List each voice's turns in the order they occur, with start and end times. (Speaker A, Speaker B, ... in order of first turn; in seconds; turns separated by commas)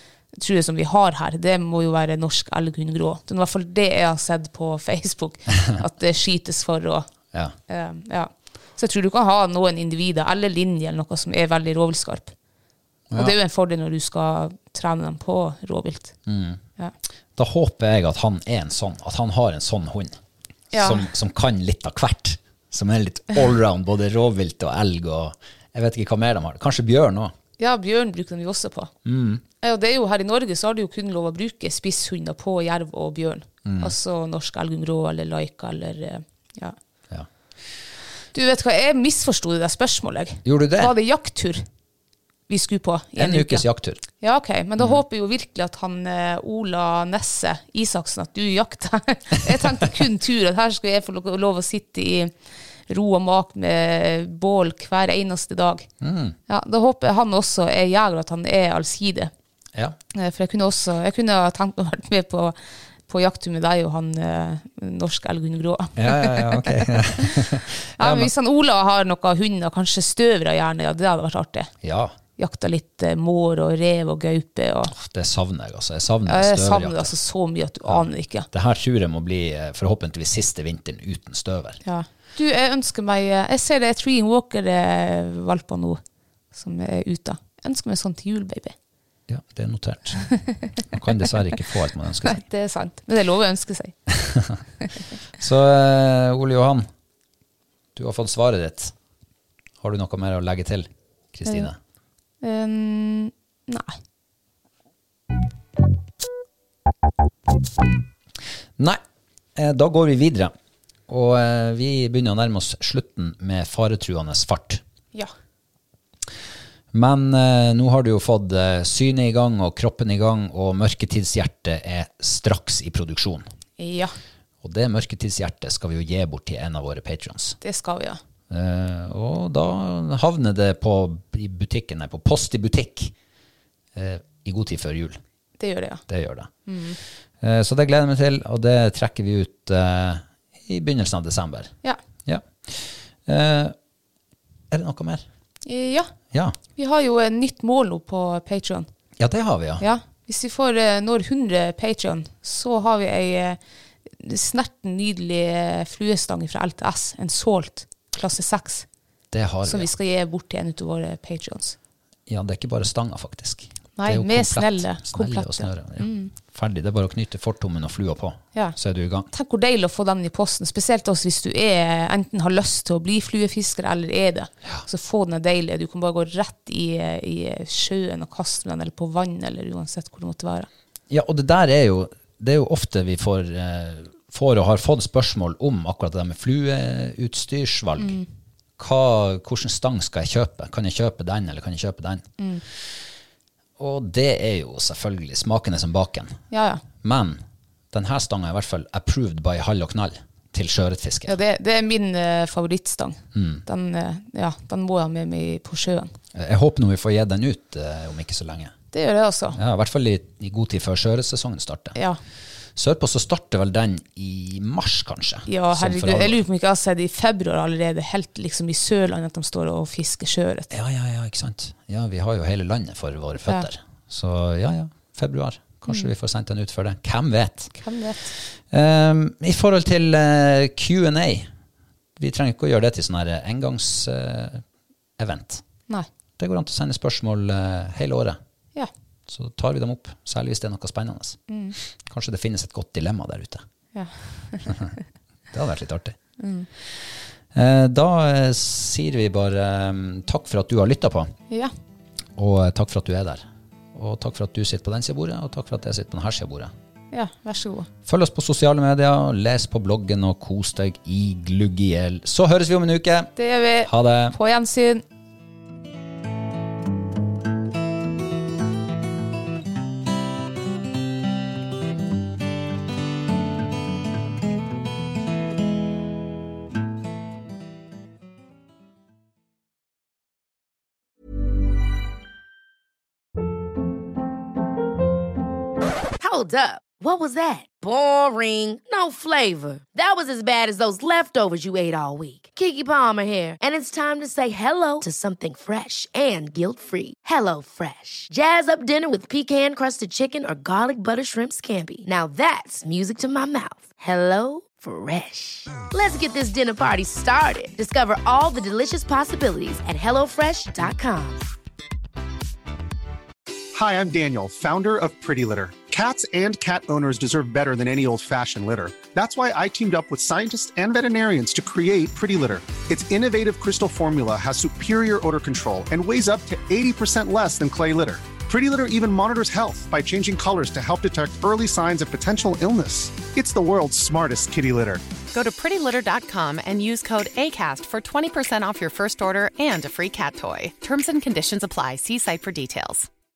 Speaker A: 0.3-7.1, Speaker A: 7.7-12.3, Speaker B: 13.1-13.4, Speaker A: 13.2-16.1, Speaker B: 16.3-16.6, Speaker B: 17.4-20.2, Speaker A: 20.7-21.1, Speaker B: 20.7-27.3, Speaker A: 27.6-28.9, Speaker B: 29.1-29.4, Speaker A: 29.6-36.8, Speaker B: 33.6-34.0, Speaker A: 38.3-41.6, Speaker B: 40.4-41.0, Speaker A: 42.5-43.6, Speaker B: 43.2-44.0, Speaker A: 44.2-52.3, Speaker A: 52.9-55.9, Speaker B: 56.0-56.4, Speaker A: 56.5-59.3, Speaker A: 60.1-67.5, Speaker B: 66.0-68.3, Speaker A: 68.0-71.7, Speaker B: 71.8-72.1, Speaker A: 72.4-74.9, Speaker B: 74.9-77.1, Speaker A: 76.3-78.5, Speaker B: 77.9-81.8, Speaker A: 81.8-86.0, Speaker A: 86.5-88.8, Speaker B: 89.3-92.4, Speaker A: 92.2-94.0, Speaker B: 94.2-94.6, Speaker B: 95.4-96.9, Speaker B: 98.0-98.9, Speaker B: 99.8-101.8, Speaker A: 102.4-104.0, Speaker B: 109.6-110.5, Speaker B: 111.1-114.8, Speaker B: 116.9-123.5, Speaker A: 123.8-124.1, Speaker B: 124.6-127.6, Speaker A: 127.6-128.2, Speaker B: 128.5-133.1, Speaker B: 133.9-135.2, Speaker A: 135.6-136.0, Speaker B: 136.1-136.5, Speaker A: 136.7-137.0, Speaker B: 137.4-141.7, Speaker B: 142.3-143.8, Speaker B: 144.7-145.2, Speaker A: 145.7-146.1, Speaker A: 146.8-148.9, Speaker B: 149.2-149.8, Speaker A: 149.8-153.6, Speaker A: 154.2-158.9, Speaker B: 159.3-159.9, Speaker A: 159.7-161.8, Speaker B: 162.3-169.3, Speaker A: 164.0-166.3, Speaker A: 169.3-180.7, Speaker B: 181.1-188.2, Speaker A: 188.0-188.3, Speaker B: 188.8-192.3, Speaker A: 192.4-192.6, Speaker B: 193.8-196.4, Speaker A: 196.5-196.8, Speaker B: 197.0-197.4, Speaker B: 197.9-201.4, Speaker A: 201.3-206.1, Speaker B: 203.3-203.6, Speaker B: 206.3-208.7, Speaker A: 208.9-209.6, Speaker B: 209.6-212.0, Speaker B: 212.8-216.4, Speaker A: 215.5-220.7, Speaker B: 220.7-227.7, Speaker A: 227.8-228.3, Speaker B: 228.7-231.5, Speaker B: 232.2-234.6, Speaker B: 235.2-235.6, Speaker B: 236.4-238.4, Speaker B: 239.3-241.4, Speaker A: 241.5-241.8, Speaker B: 242.1-243.6, Speaker A: 243.9-244.7, Speaker B: 245.5-246.2, Speaker A: 246.4-246.7, Speaker B: 247.5-251.3, Speaker B: 252.4-256.7, Speaker A: 257.1-257.9, Speaker B: 258.1-264.4, Speaker A: 263.4-265.0, Speaker C: 286.2-311.5, Speaker D: 313.8-335.0, Speaker E: 335.3-343.1